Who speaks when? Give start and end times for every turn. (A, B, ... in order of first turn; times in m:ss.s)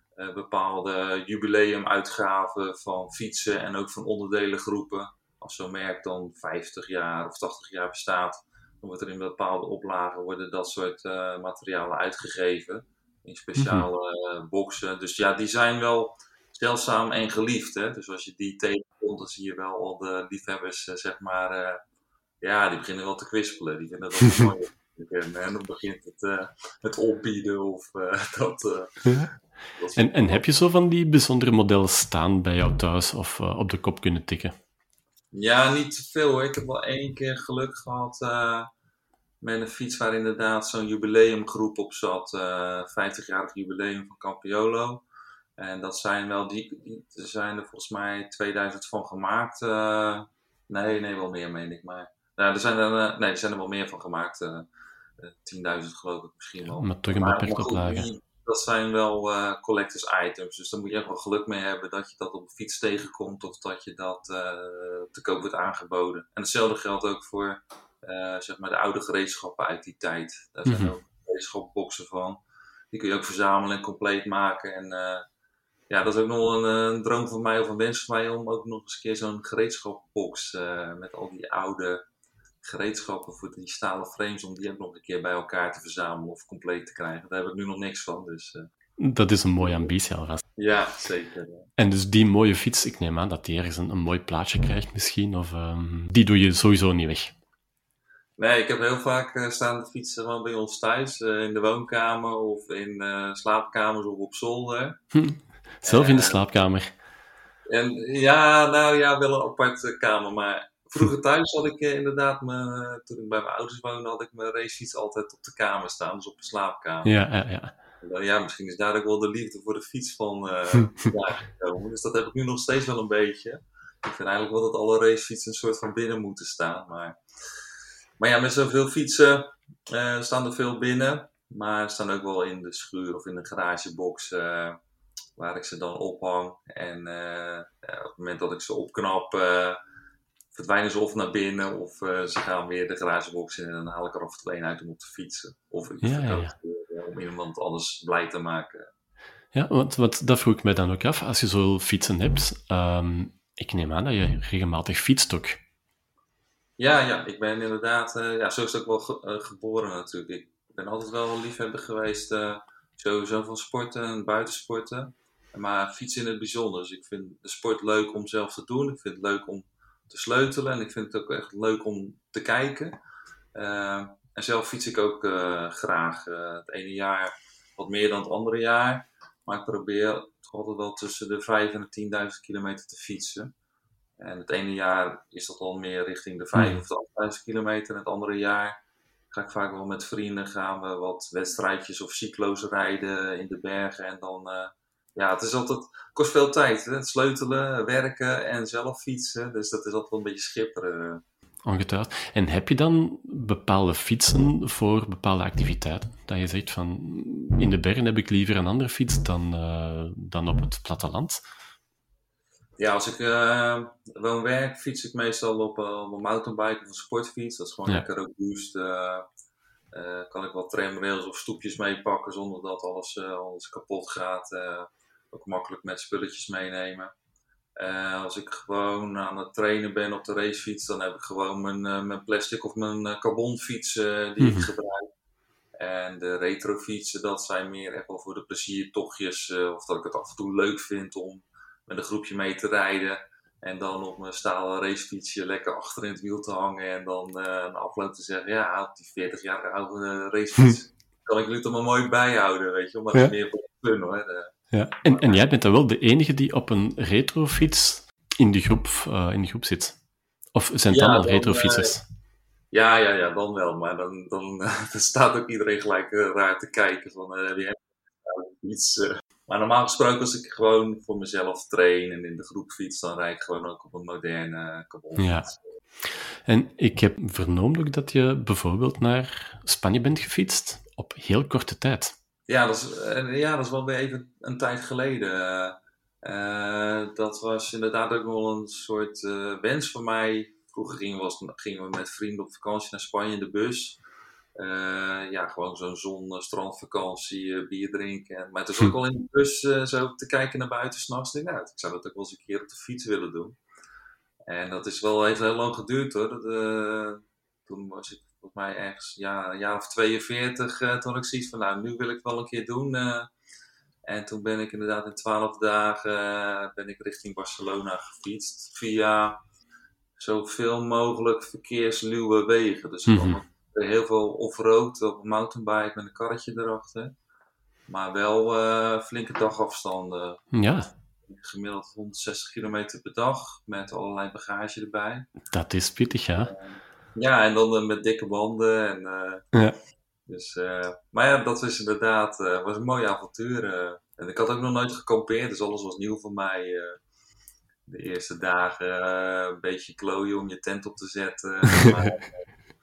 0:00.2-0:21.8 A
0:13.6-0:13.9 B
0:22.4-0:29.2 A
0:29.7-0:30.4 A
0:30.0-0:34.5 B
0:35.3-0:38.7 A
0:39.4-0:45.0 A
0:45.6-0:54.7 A
0:55.2-1:12.4 A
0:56.7-0:58.0 B
1:10.7-1:10.9 B
1:12.9-1:15.2 A
1:15.9-1:22.0 A
1:22.6-1:28.7 A
1:29.0-1:30.4 B
1:29.6-1:29.9 A
1:30.6-1:31.7 A
1:31.8-1:37.3 B
1:38.4-1:45.0 A
1:45.1-1:46.9 B
1:45.8-1:46.4 A
1:47.7-1:57.1 A
1:57.0-1:57.7 B
1:58.0-2:07.2 A
2:08.2-2:14.8 A
2:15.4-2:19.8 A
2:20.5-2:28.9 A
2:26.0-2:26.5 B
2:29.5-2:35.6 B
2:36.8-2:52.9 A
2:53.5-3:03.5 A
3:04.2-3:08.8 A
3:06.5-3:06.8 B
3:09.3-3:21.2 A
3:21.6-3:31.4 B
3:32.8-3:39.2 A
3:39.9-3:47.1 A
3:47.8-3:55.1 A
3:54.4-3:54.7 B
3:55.8-4:14.6 A
4:14.7-4:20.0 B
4:15.1-4:15.4 A
4:20.5-4:22.0 B
4:20.9-4:21.9 A
4:22.7-4:35.6 A
4:35.2-4:35.5 B
4:36.0-4:42.1 B
4:42.5-4:54.0 A
4:54.6-5:03.6 A
5:04.5-5:13.3 A
5:14.1-5:19.4 A
5:20.2-5:27.1 A
5:23.1-5:23.4 B
5:27.9-5:30.5 A
5:30.5-5:30.9 B
5:31.2-5:35.3 A
5:35.5-5:36.5 B
5:36.4-5:39.4 A
5:40.3-5:47.0 A
5:47.8-5:52.4 A